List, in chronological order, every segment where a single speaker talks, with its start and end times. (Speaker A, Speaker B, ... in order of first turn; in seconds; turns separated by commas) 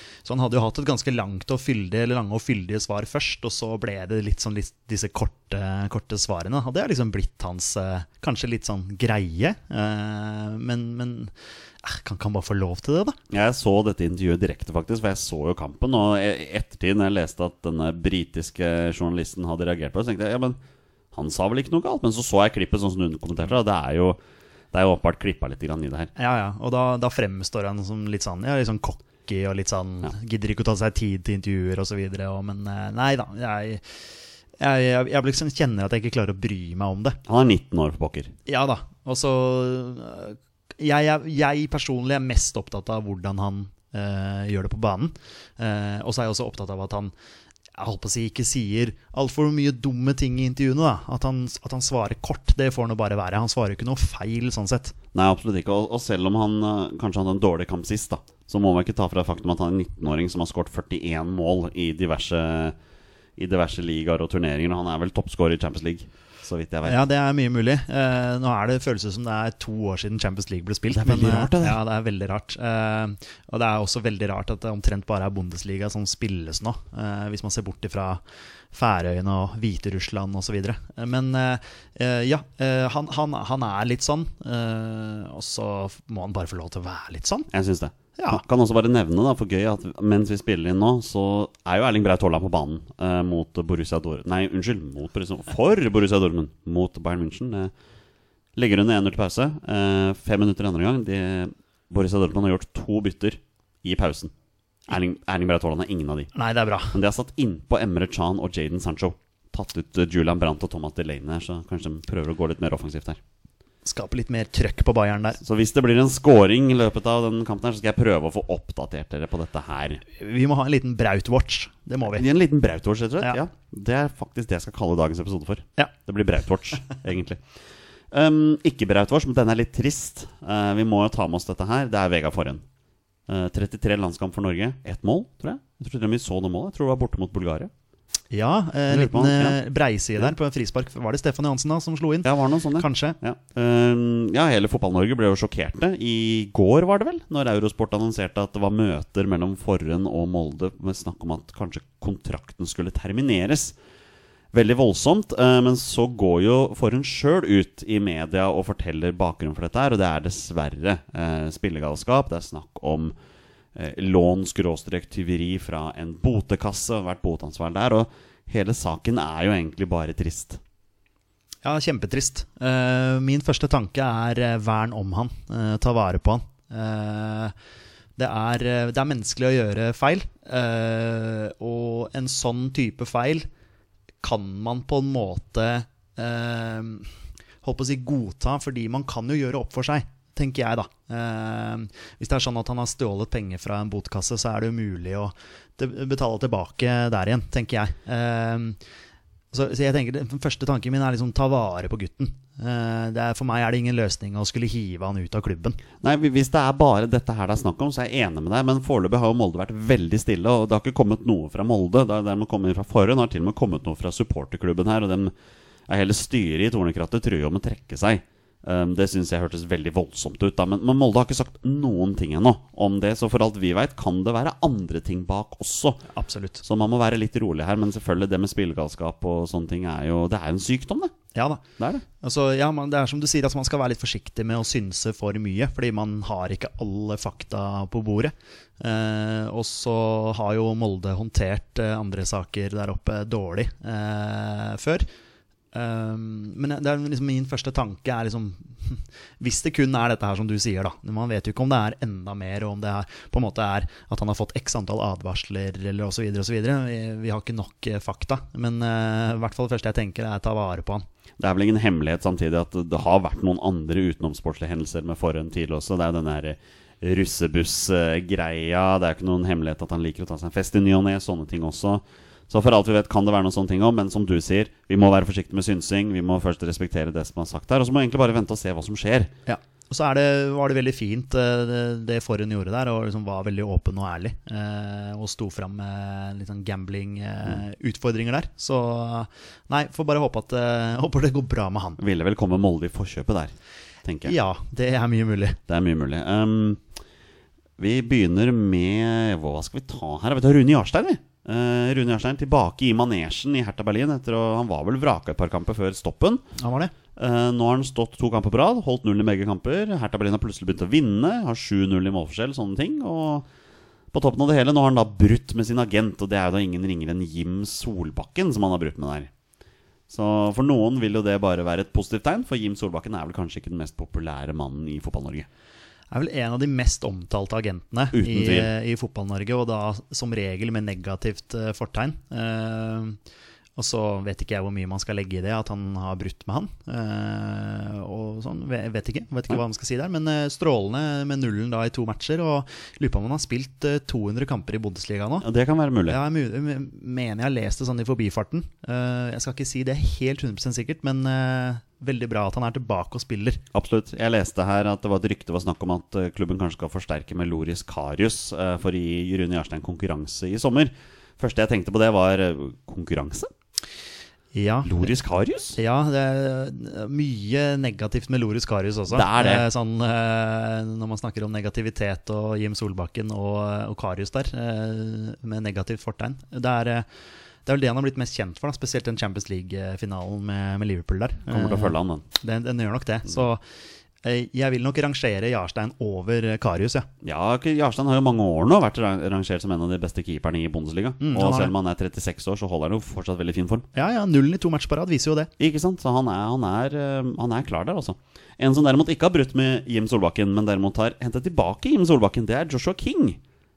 Speaker A: 0.2-11.3, Speaker A: 11.8-13.2, Speaker B: 13.3-20.6, Speaker B: 21.1-24.2, Speaker B: 24.7-26.1, Speaker A: 26.1-33.8, Speaker A: 34.6-37.2, Speaker B: 37.3-38.3, Speaker A: 38.5-47.1, Speaker A: 47.8-55.0, Speaker B: 55.1-62.8, Speaker B: 63.4-67.0, Speaker A: 66.8-78.2, Speaker B: 70.9-71.8, Speaker A: 78.7-87.5, Speaker B: 87.5-97.7, Speaker A: 88.2-88.4, Speaker B: 98.5-104.3, Speaker B: 104.9-106.3, Speaker A: 106.3-107.0, Speaker B: 106.9-113.2, Speaker A: 113.8-115.4, Speaker B: 115.4-120.0, Speaker A: 120.1-122.2, Speaker B: 122.0-127.4, Speaker B: 128.1-132.6, Speaker B: 133.3-137.7, Speaker A: 138.3-143.2, Speaker B: 138.9-139.6, Speaker B: 142.2-153.8, Speaker B: 154.5-163.1, Speaker B: 163.7-170.6, Speaker A: 171.6-177.5, Speaker A: 178.2-183.5, Speaker A: 184.2-187.1, Speaker A: 187.6-198.8, Speaker A: 199.5-205.8, Speaker B: 206.0-215.3, Speaker B: 215.9-226.0, Speaker A: 226.1-226.6, Speaker B: 226.6-231.1, Speaker A: 231.3-231.6, Speaker B: 231.8-232.0, Speaker A: 232.2-245.1, Speaker A: 245.7-261.0, Speaker B: 261.4-279.3, Speaker A: 279.4-292.0, Speaker B: 292.0-294.3, Speaker A: 294.2-295.6, Speaker B: 295.7-296.8, Speaker B: 297.8-306.4, Speaker A: 306.6-306.9, Speaker B: 307.1-313.5, Speaker B: 314.1-319.3, Speaker B: 320.1-325.5, Speaker A: 326.1-333.2, Speaker B: 328.1-328.7, Speaker A: 333.8-345.4, Speaker B: 345.4-346.2, Speaker A: 346.1-353.6, Speaker B: 353.7-363.5, Speaker A: 364.5-365.1, Speaker B: 364.8-365.8, Speaker A: 365.8-377.1, Speaker B: 369.1-369.6, Speaker A: 377.6-383.6, Speaker B: 381.5-382.2, Speaker A: 384.2-387.1, Speaker B: 387.2-393.9, Speaker A: 391.2-391.7, Speaker A: 393.9-395.5, Speaker B: 395.6-403.4